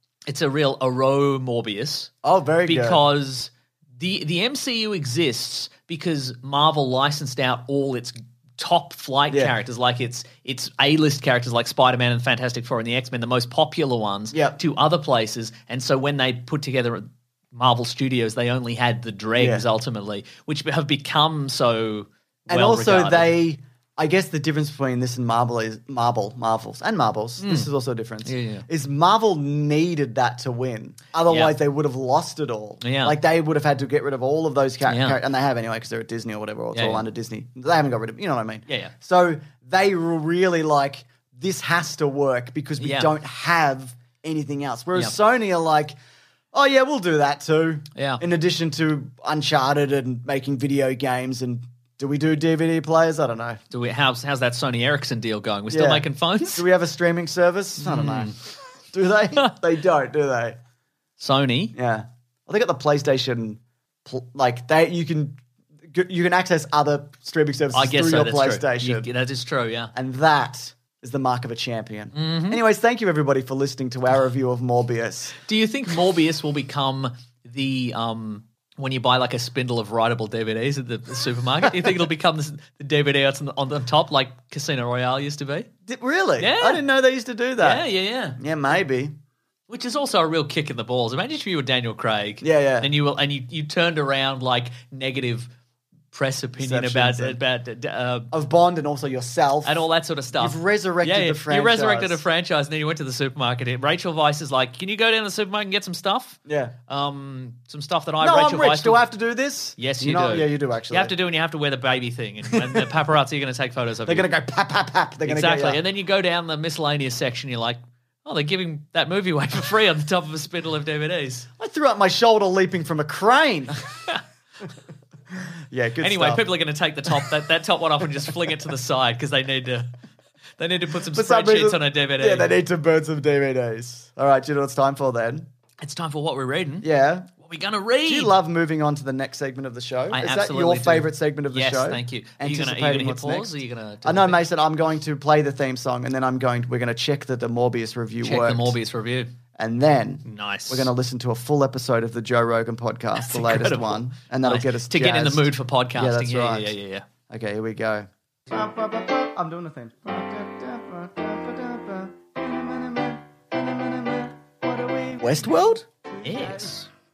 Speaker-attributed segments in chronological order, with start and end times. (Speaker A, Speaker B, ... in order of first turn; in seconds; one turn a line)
Speaker A: 0.3-2.1
Speaker B: 2.2-3.0
Speaker A: 2.6-23.4
Speaker B: 14.3-14.6
Speaker B: 19.4-19.6
Speaker B: 22.5-46.0
Speaker A: 27.4-27.7
Speaker A: 28.2-28.6
Speaker A: 31.2-31.5
Speaker A: 32.8-33.2
Speaker A: 34.9-35.2
Speaker A: 36.7-37.0
Speaker A: 38.7-38.9
Speaker A: 42.8-43.1
Speaker B: 46.5-53.6
Speaker A: 48.0-48.2
Speaker A: 53.7-56.6
Speaker B: 55.7-60.6
Speaker A: 57.8-58.4
Speaker A: 61.2-61.7
Speaker B: 61.7-69.1
Speaker A: 67.7-69.9
Speaker B: 69.9-75.3
Speaker A: 72.1-72.6
Speaker A: 75.4-85.7
Speaker B: 81.6-81.9
Speaker B: 85.8-87.8
Speaker A: 86.4-86.8
Speaker A: 87.6-88.4
Speaker B: 88.4-89.1
Speaker A: 89.7-95.5
Speaker B: 92.4-92.9
Speaker A: 96.1-98.3
Speaker B: 96.6-97.4
Speaker B: 98.3-102.2
Speaker A: 99.6-109.0
Speaker B: 106.5-106.7
Speaker B: 108.2-111.1
Speaker A: 109.8-114.3
Speaker B: 112.5-112.8
Speaker B: 114.0-115.8
Speaker A: 115.2-121.5
Speaker B: 121.6-123.8
Speaker B: 125.3-126.5
Speaker A: 126.0-129.9
Speaker A: 130.6-132.5
Speaker B: 131.1-135.5
Speaker A: 135.8-138.3
Speaker B: 136.8-137.3
Speaker B: 138.0-148.8
Speaker A: 140.1-144.4
Speaker A: 148.2-149.3
Speaker B: 149.5-156.7
Speaker A: 150.2-150.9
Speaker A: 153.2-157.1
Speaker B: 157.3-166.7
Speaker A: 166.2-166.9